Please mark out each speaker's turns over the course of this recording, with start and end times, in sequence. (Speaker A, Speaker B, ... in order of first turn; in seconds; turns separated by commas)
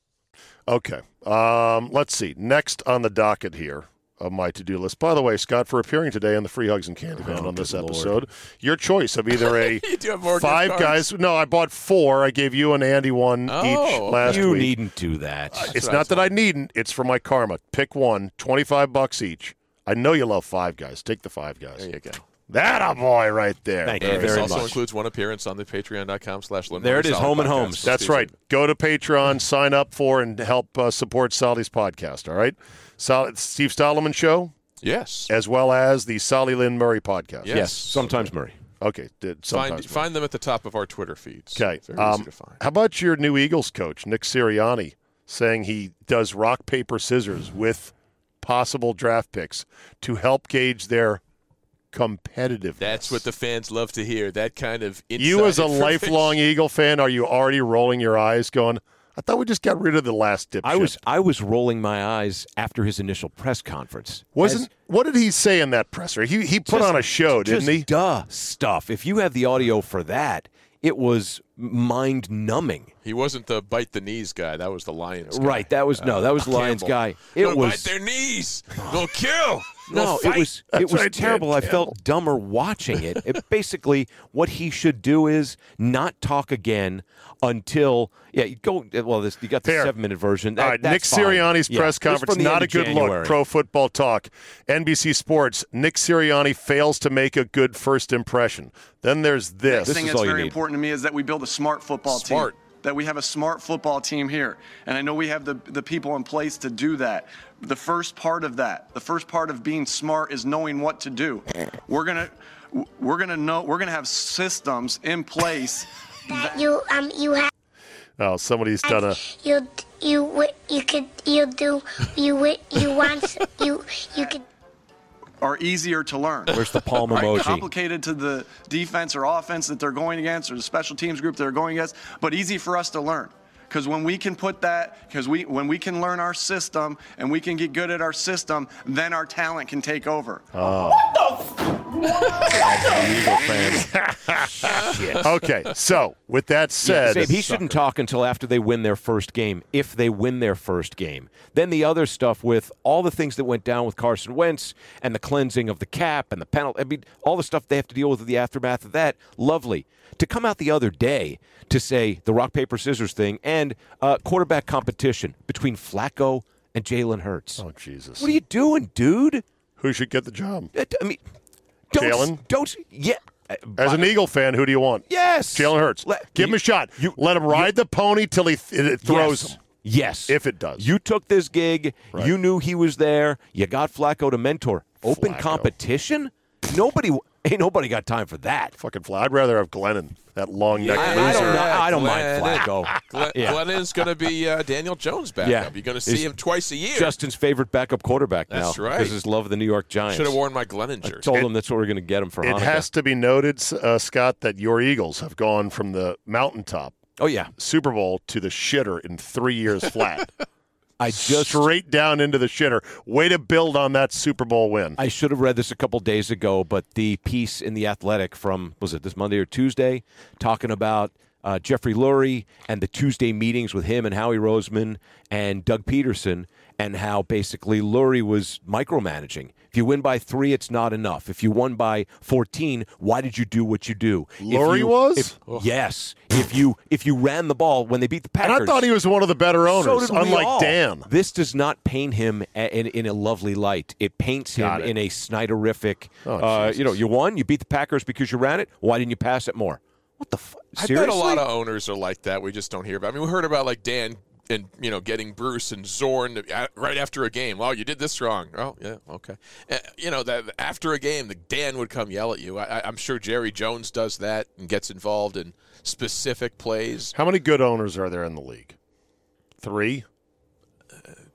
Speaker A: 0.7-14.7, Speaker B: 7.2-8.2, Speaker C: 9.4-11.1, Speaker C: 13.5-14.6, Speaker B: 14.2-15.7, Speaker A: 15.5-21.8, Speaker C: 15.6-16.3, Speaker C: 21.8-22.2, Speaker A: 22.5-24.7, Speaker B: 23.8-24.8, Speaker C: 24.0-28.3, Speaker B: 26.8-28.0, Speaker A: 27.8-34.5, Speaker C: 34.8-35.3, Speaker A: 35.3-37.5, Speaker C: 37.4-38.1, Speaker B: 37.5-38.5, Speaker A: 38.8-40.0, Speaker C: 39.5-42.6, Speaker A: 41.5-51.2, Speaker A: 51.9-53.2, Speaker C: 52.8-56.4, Speaker A: 55.2-61.0, Speaker B: 60.6-64.7, Speaker A: 64.3-67.9, Speaker B: 66.7-72.9, Speaker C: 73.0-80.5, Speaker B: 75.3-77.9, Speaker B: 79.9-93.4, Speaker A: 80.7-81.9, Speaker A: 89.6-89.9, Speaker A: 90.6-100.0, Speaker D: 99.7-116.5, Speaker B: 99.8-100.5, Speaker C: 102.1-102.5, Speaker E: 116.3-117.5, Speaker A: 118.2-119.2, Speaker E: 118.8-124.4, Speaker D: 125.4-140.5, Speaker B: 126.5-127.7, Speaker A: 140.5-141.1, Speaker B: 142.5-145.2, Speaker A: 143.8-147.4, Speaker C: 144.9-145.1, Speaker B: 146.8-167.6, Speaker C: 147.3-147.8, Speaker A: 167.6-168.3, Speaker B: 168.2-169.4, Speaker A: 169.8-170.7, Speaker B: 170.7-171.2, Speaker B: 171.9-174.1, Speaker A: 171.9-172.4, Speaker A: 173.8-179.6, Speaker B: 175.1-177.8, Speaker B: 179.0-188.8, Speaker A: 180.3-180.9, Speaker A: 185.0-185.7, Speaker A: 188.8-191.7, Speaker C: 190.8-197.1, Speaker B: 190.9-193.6, Speaker B: 195.4-196.3, Speaker B: 196.9-200.4, Speaker C: 198.5-199.2, Speaker C: 200.1-201.5, Speaker B: 201.0-202.9, Speaker A: 202.4-206.9, Speaker B: 207.2-207.5, Speaker A: 207.6-210.3, Speaker B: 211.0-211.7, Speaker A: 211.1-215.0, Speaker B: 215.0-238.9, Speaker A: 234.4-235.3, Speaker A: 238.4-241.1, Speaker B: 239.7-251.4, Speaker A: 244.6-244.9, Speaker A: 246.2-247.0, Speaker C: 250.8-267.1, Speaker A: 267.1-268.7, Speaker A: 269.6-270.1